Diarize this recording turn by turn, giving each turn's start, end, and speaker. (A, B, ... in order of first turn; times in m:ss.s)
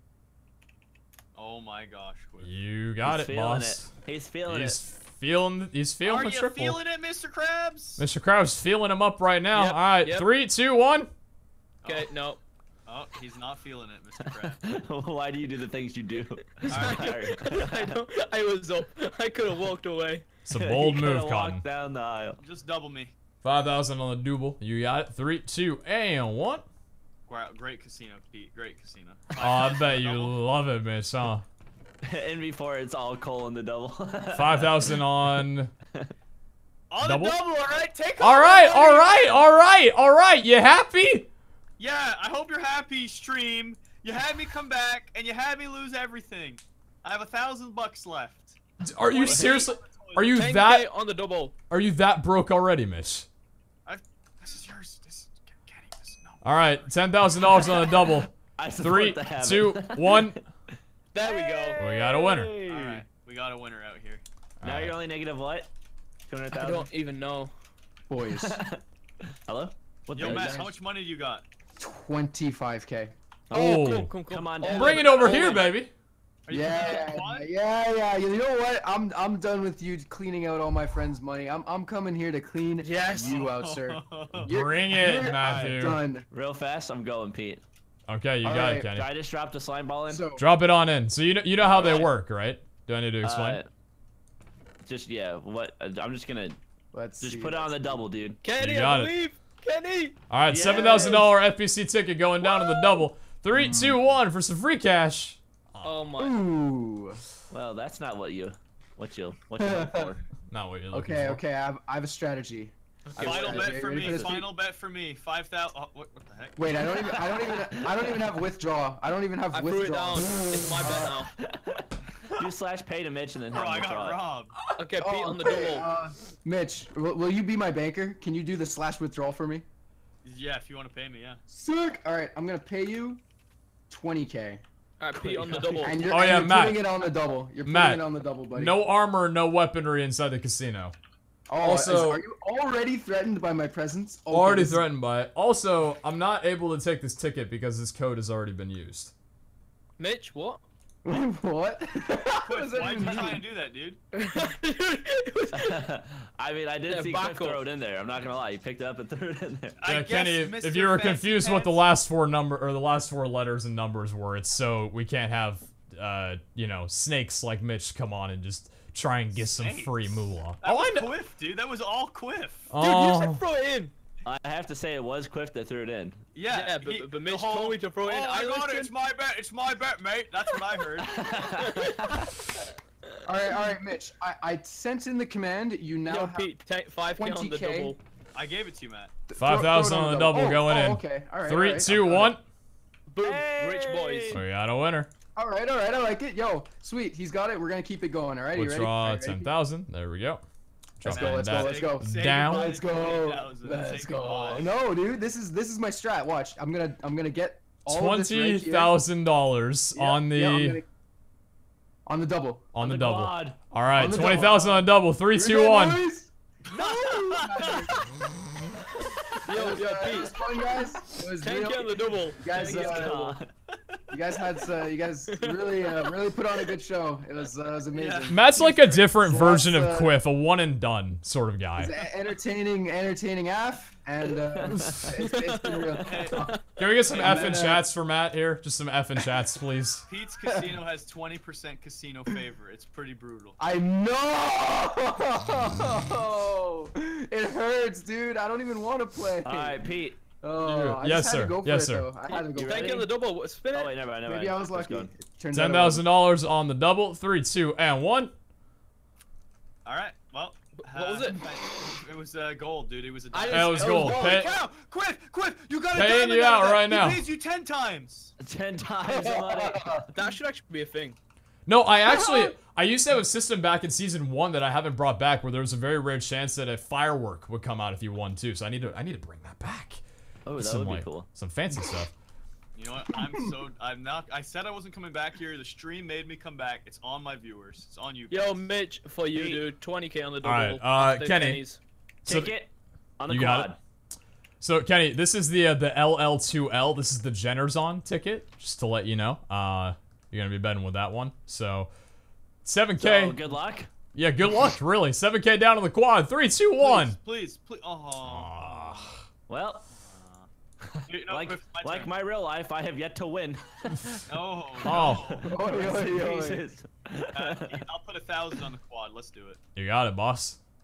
0:01.4-0:02.5 A
0:02.4-0:03.9 B
0:03.0-0:04.8 C
0:04.4-0:06.8 B
0:06.0-0:08.0 A
0:08.0-0:11.1 B
0:09.5-0:10.3 D
0:11.8-0:12.1 A
0:11.8-0:12.4 D
0:12.9-0:14.6 A
0:14.4-0:18.0 C
0:16.7-0:17.4 A
0:16.8-0:20.3 D
0:20.4-0:21.6 B
0:20.5-0:22.4 C
0:22.4-0:23.1 A
0:23.4-0:26.6 B
0:27.3-0:30.4 A
0:29.4-0:31.4 B
0:32.0-0:35.0 C
0:34.3-0:35.7 B
0:36.9-0:37.9 A
0:37.0-0:37.4 B
0:37.2-0:39.4 D
0:38.2-0:41.3 B
0:41.8-0:50.4 A
0:48.8-0:50.9 B
0:49.3-0:49.7 C
0:50.3-0:51.5 D
0:51.7-0:53.3 B
0:53.9-0:58.0 A
0:56.4-1:00.4 B
0:58.6-1:00.4 C
1:01.1-1:01.8 D
1:01.2-1:03.1 C
1:01.8-1:02.5 B
1:02.7-1:04.2 A
1:04.6-1:05.0 B
1:04.6-1:05.7 C
1:06.3-1:06.9 C
1:06.5-1:07.5 D
1:08.1-1:08.6 E
1:08.3-1:08.8 C
1:09.5-1:10.6 C
1:10.2-1:11.4 A
1:10.2-1:10.8 E
1:11.8-1:13.1 E
1:13.5-1:15.6 C
1:13.5-1:14.1 B
1:13.5-1:15.7 D
1:14.6-1:15.9 B
1:15.0-1:15.7 A
1:16.5-1:17.5 A
1:16.5-1:26.3 E
1:22.8-1:23.4 D
1:23.0-1:25.9 A
1:24.4-1:26.0 B
1:26.3-1:27.6 C
1:28.1-1:29.1 B
1:28.4-1:28.9 E
1:28.9-1:30.3 C
1:30.1-1:30.5 E
1:30.4-1:33.6 B
1:31.6-1:32.1 C
1:33.2-1:33.7 C
1:34.8-1:36.6 C
1:36.9-1:38.0 E
1:37.2-1:38.4 C
1:38.4-1:40.2 D
1:38.6-1:39.1 B
1:40.3-1:46.1 B
1:40.5-1:41.3 C
1:42.6-1:42.9 D
1:43.5-1:44.0 E
1:45.8-1:46.4 D
1:46.2-1:47.2 E
1:47.5-1:50.2 C
1:49.6-1:50.1 E
1:50.5-1:51.4 B
1:50.9-1:54.5 E
1:53.2-1:57.1 A
1:53.2-1:54.4 C
1:56.6-2:01.2 E
1:56.8-1:58.3 C
1:59.5-2:01.3 D
2:01.4-2:04.2 C
2:03.5-2:04.5 A
2:04.8-2:05.9 D
2:05.0-2:09.6 E
2:10.2-2:11.4 A
2:11.5-2:13.2 E
2:13.9-2:14.6 E
2:15.0-2:16.0 D
2:15.2-2:15.8 A
2:15.5-2:18.8 E
2:16.1-2:16.8 B
2:17.6-2:20.9 B
2:21.5-2:24.9 E
2:21.6-2:22.2 B
2:24.3-2:29.1 B
2:30.0-2:30.6 D
2:31.0-2:33.4 E
2:32.5-2:34.0 A
2:34.3-2:35.8 D
2:35.5-2:39.8 C
2:36.9-2:37.7 D
2:39.8-2:41.8 A
2:39.9-2:51.1 B
2:49.3-2:52.7 A
2:52.7-2:53.4 B
2:52.8-2:53.9 D
2:54.2-2:56.2 C
2:56.4-3:01.6 A
2:56.5-2:58.9 D
3:01.0-3:02.4 C
3:01.8-3:02.0 D
3:03.2-3:06.5 E
3:06.1-3:08.0 D
3:07.2-3:08.0 E
3:08.4-3:09.1 A
3:09.3-3:12.4 E
3:09.4-3:12.4 B
3:13.1-3:14.4 D
3:13.2-3:14.4 C
3:14.3-3:15.1 B
3:15.4-3:19.5 E
3:18.5-3:20.4 B
3:21.0-3:22.7 B
3:21.0-3:24.8 A
3:21.0-3:29.0 E
3:27.9-3:30.8 B
3:29.9-3:30.9 E
3:32.1-3:32.7 E
3:32.7-3:36.0 B
3:32.8-3:33.6 C
3:33.9-3:38.1 E
3:36.7-3:38.0 A
3:39.5-3:40.7 D
3:39.5-3:43.4 E
3:41.4-3:43.1 D
3:42.4-3:43.5 C
3:44.1-3:50.2 E
3:45.3-3:46.2 D
3:47.9-3:48.9 A
3:48.3-3:51.9 B
3:51.8-3:56.6 E
3:54.6-3:55.2 C
3:55.2-3:56.6 D
3:56.1-3:56.6 A
3:56.8-4:00.0 B
3:57.1-3:57.6 A
3:57.1-3:57.8 E
4:00.1-4:03.6 A
4:00.5-4:00.8 E
4:03.6-4:09.8 E
4:09.4-4:10.2 C
4:10.4-4:13.1 E
4:10.6-4:12.1 B
4:12.3-4:13.1 C
4:12.6-4:14.0 D
4:13.7-4:15.1 C
4:14.3-4:16.1 E
4:15.5-4:18.3 B
4:19.8-4:28.3 A
4:20.9-4:21.4 D
4:23.3-4:24.6 D
4:23.5-4:24.5 B
4:24.0-4:24.5 E
4:25.9-4:27.3 B
4:28.4-4:30.1 C
4:29.0-4:30.1 E
4:30.1-4:31.2 D
4:31.7-4:40.0 B
4:32.1-4:32.5 E
4:40.5-4:41.3 C
4:40.6-4:42.1 B
4:42.8-4:48.7 A
4:43.2-4:43.5 E
4:48.3-4:51.8 D
4:49.3-4:49.6 C
4:50.4-4:51.6 B
4:52.2-4:52.6 B
4:52.3-4:53.8 C
4:53.3-4:53.7 B
4:54.6-5:01.9 B
5:02.6-5:03.4 B
5:03.0-5:03.9 C
5:04.1-5:07.2 B
5:06.8-5:09.2 A
5:08.2-5:09.2 B
5:09.5-5:09.9 C
5:09.9-5:10.5 A
5:10.8-5:14.2 C
5:11.1-5:12.1 A
5:14.3-5:15.7 A
5:14.8-5:17.8 C
5:14.8-5:15.3 B
5:15.5-5:16.7 E
5:17.3-5:19.6 A
5:19.8-5:20.6 B